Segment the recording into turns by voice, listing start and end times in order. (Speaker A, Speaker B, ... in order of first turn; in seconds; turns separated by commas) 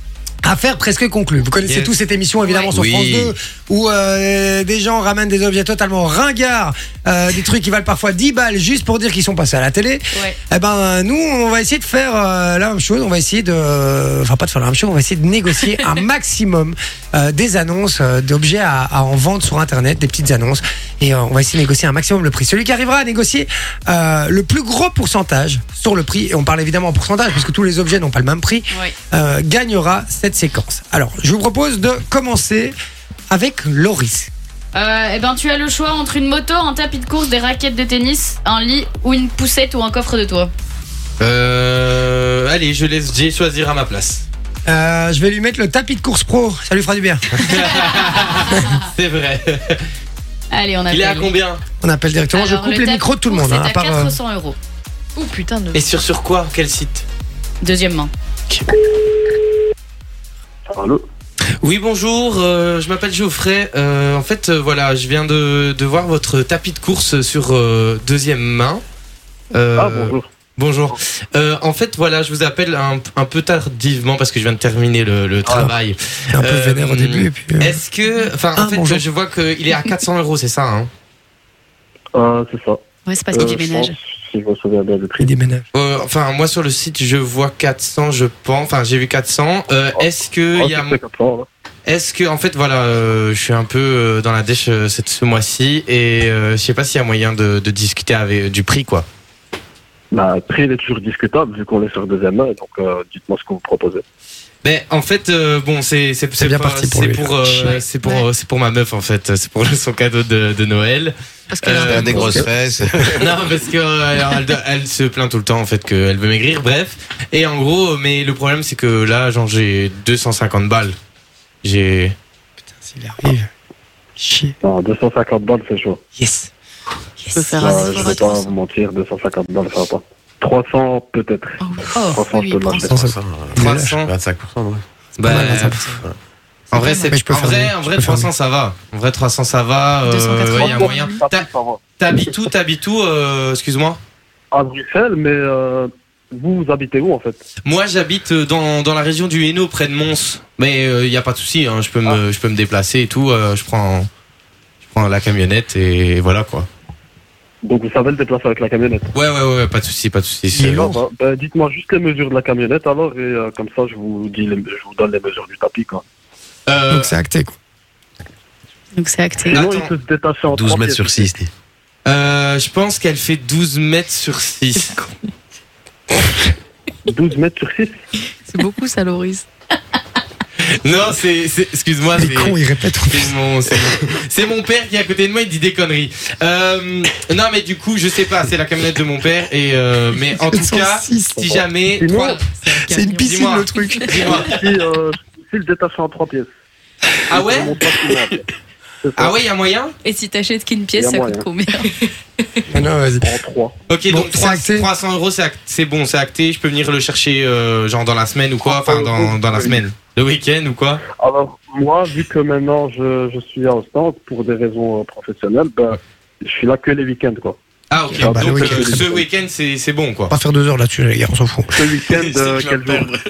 Speaker A: 0.4-32.7, Speaker B: 1.6-1.9, Speaker C: 2.4-2.7, Speaker D: 2.7-3.3, Speaker C: 10.1-10.4, Speaker A: 33.3-34.3, Speaker C: 34.7-40.5, Speaker B: 41.2-44.2, Speaker A: 44.6-47.7, Speaker B: 47.3-49.9, Speaker C: 50.5-51.3, Speaker B: 50.9-51.6, Speaker A: 51.8-54.1, Speaker C: 52.3-54.6, Speaker E: 55.1-55.8, Speaker B: 55.7-57.0, Speaker C: 57.6-58.1, Speaker B: 58.5-58.8, Speaker F: 60.7-61.0, Speaker B: 61.6-68.8, Speaker B: 69.5-80.9, Speaker F: 69.8-70.3, Speaker A: 76.3-77.8, Speaker A: 78.5-79.0, Speaker F: 82.1-85.3, Speaker E: 83.3-83.9, Speaker A: 85.2-85.6, Speaker B: 85.7-91.0, Speaker F: 90.0-91.5, Speaker B: 91.8-99.0, Speaker F: 100.1-104.0, Speaker B: 104.6-112.3, Speaker A: 106.4-107.8, Speaker C: 107.6-108.2, Speaker A: 111.7-112.5, Speaker E: 111.7-112.5, Speaker D: 111.8-113.3, Speaker B: 113.1-121.0, Speaker B: 121.6-122.1, Speaker A: 122.7-123.5, Speaker A: 124.2-124.5, Speaker F: 124.6-126.0, Speaker A: 126.2-126.5, Speaker E: 127.3-128.6, Speaker F: 127.4-132.9, Speaker E: 131.6-132.9, Speaker C: 131.9-132.3, Speaker A: 132.9-134.0, Speaker D: 132.9-134.8, Speaker B: 133.5-134.1, Speaker B: 135.2-135.9, Speaker A: 135.2-136.0, Speaker B: 136.7-141.5, Speaker E: 136.7-137.0, Speaker A: 137.1-138.3, Speaker C: 140.1-141.0, Speaker F: 140.5-141.8, Speaker B: 142.0-144.0, Speaker F: 144.5-147.4, Speaker B: 147.6-154.1, Speaker B: 154.9-156.7, Speaker F: 157.6-159.1, Speaker B: 159.1-160.8, Speaker A: 160.5-161.0, Speaker F: 160.7-166.0, Speaker B: 166.7-167.1, Speaker A: 166.9-167.6, Speaker C: 169.0-169.6, Speaker F: 169.4-171.3, Speaker B: 169.5-169.9, Speaker D: 170.5-171.5, Speaker B: 172.0-175.0, Speaker F: 177.1-177.9, Speaker E: 178.5-179.4, Speaker B: 180.6-192.4, Speaker A: 182.2-183.3, Speaker A: 190.4-191.6, Speaker F: 191.9-192.4, Speaker A: 192.7-194.3, Speaker E: 192.8-193.2, Speaker B: 193.2-194.5, Speaker F: 194.1-196.5, Speaker B: 197.3-197.7, Speaker F: 197.3-198.4, Speaker F: 199.0-199.4, Speaker B: 199.2-199.9, Speaker C: 200.1-201.9, Speaker F: 200.9-201.5, Speaker A: 202.7-203.3, Speaker F: 203.2-203.7, Speaker B: 203.9-211.0, Speaker A: 204.1-204.9, Speaker F: 208.7-209.8, Speaker F: 211.1-219.2, Speaker B: 217.9-220.3, Speaker A: 218.2-219.0, Speaker A: 220.3-221.7, Speaker F: 221.7-223.1, Speaker D: 222.0-223.2